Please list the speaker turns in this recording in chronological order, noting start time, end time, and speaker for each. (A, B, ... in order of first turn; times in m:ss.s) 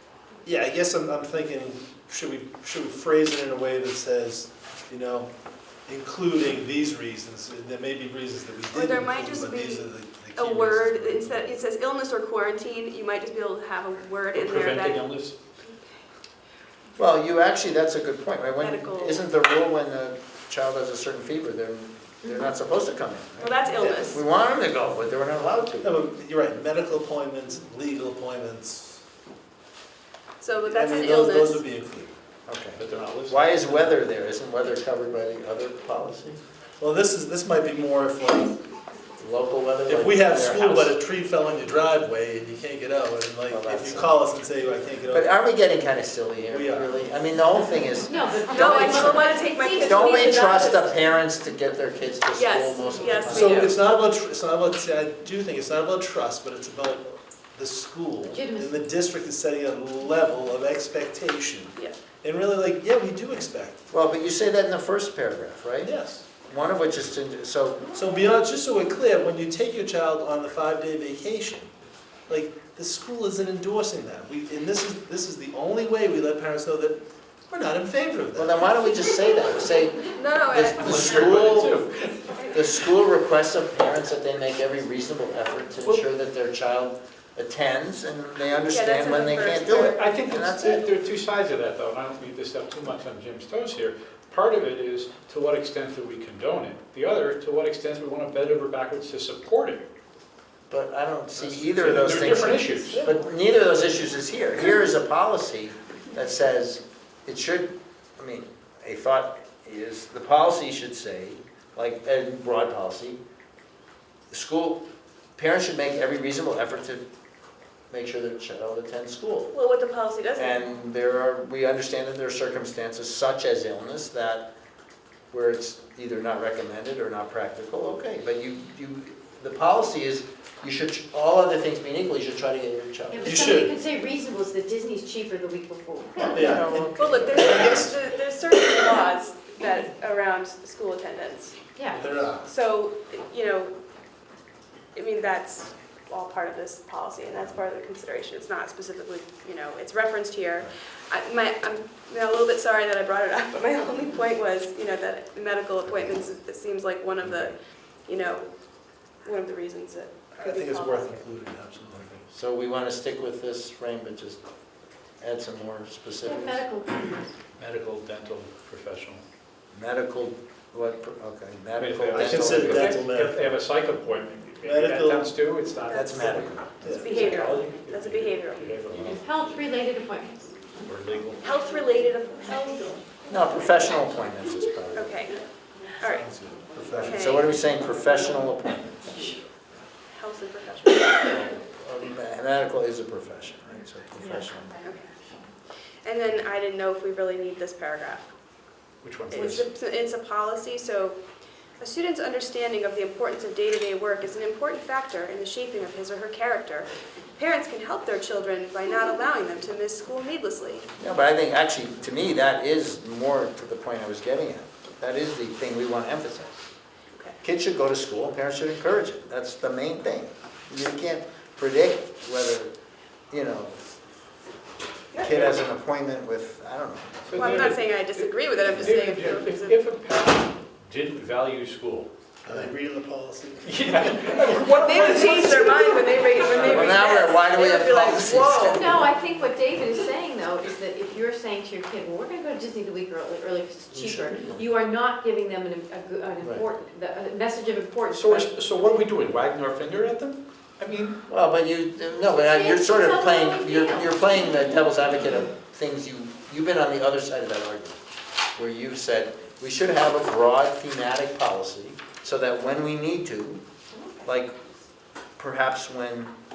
0:00.4-0:05.3 A
0:05.8-0:11.6 A
0:08.7-0:15.1 B
0:14.3-0:15.3 C
0:17.0-0:26.0 D
0:18.6-0:19.3 B
0:22.2-0:22.5 E
0:23.4-0:24.2 B
0:23.8-0:24.1 A
0:25.8-0:29.0 A
0:30.4-0:31.6 B
0:30.7-0:32.1 A
0:32.5-0:36.4 D
0:32.7-0:33.9 C
0:36.8-0:38.5 A
0:39.2-0:40.9 D
0:39.8-0:45.3 A
0:43.5-0:44.2 D
0:45.1-0:53.8 D
0:46.5-0:46.9 A
0:48.0-0:50.4 E
0:48.5-0:51.0 B
0:52.3-0:53.8 B
0:53.3-1:03.8 A
0:58.3-0:58.8 E
1:03.9-1:05.9 D
1:05.8-1:06.2 A
1:06.5-1:07.9 D
1:07.9-1:11.7 A
1:12.3-1:18.6 A
1:18.4-1:21.8 D
1:20.0-1:21.0 B
1:20.8-1:22.2 C
1:22.5-1:30.9 D
1:28.6-1:30.1 B
1:29.8-1:39.8 C
1:40.7-1:53.2 D
1:41.4-1:43.1 C
1:54.3-1:54.8 D
1:55.4-1:57.0 D
1:57.9-1:59.5 D
1:59.5-2:00.6 B
2:00.4-2:04.5 D
2:05.3-2:13.4 D
2:13.1-2:16.8 E
2:13.3-2:13.7 A
2:16.2-2:17.9 D
2:16.3-2:17.9 A
2:16.9-2:21.6 B
2:21.8-2:22.2 E
2:22.0-2:22.5 A
2:22.4-2:23.7 B
2:24.9-2:37.6 B
2:38.1-2:38.5 B
2:39.2-2:41.2 B
2:40.4-2:42.2 A
2:42.3-2:44.4 D
2:45.2-2:46.6 D
2:46.2-2:47.2 E
2:47.6-2:49.2 C
2:49.7-2:53.0 D
2:51.8-2:59.2 C
2:52.1-2:53.5 A
2:54.6-2:55.3 A
2:55.9-2:56.6 D
2:56.8-2:57.2 A
2:56.9-2:58.7 B
2:59.0-3:00.5 E
3:00.8-3:01.4 C
3:01.4-3:03.3 B
3:03.3-3:05.2 D
3:04.9-3:05.4 B
3:06.0-3:06.2 B
3:06.0-3:07.6 A
3:07.0-3:07.5 B
3:07.1-3:09.2 D
3:10.1-3:11.5 B
3:11.2-3:14.7 D
3:14.2-3:14.7 E
3:14.8-3:15.1 B
3:16.0-3:18.3 B
3:19.0-3:19.7 C
3:19.3-3:21.2 B
3:21.8-3:30.9 B
3:31.0-3:36.7 D
3:37.1-3:37.4 B
3:37.4-3:42.7 D
3:43.3-3:43.8 D
3:45.1-3:45.6 C
3:45.2-3:47.2 D
3:47.2-3:52.1 C
3:47.3-3:49.8 B
3:52.4-3:54.4 A
3:53.6-3:57.0 C
3:54.5-3:58.8 B
3:56.5-3:59.1 D
3:58.3-4:08.5 E
4:03.9-4:04.7 D
4:06.4-4:06.6 D
4:08.1-4:11.2 C
4:11.3-4:18.0 D
4:12.1-4:15.5 E
4:18.6-4:23.6 D
4:23.9-4:24.4 E
4:24.2-4:24.5 D
4:25.4-4:26.3 D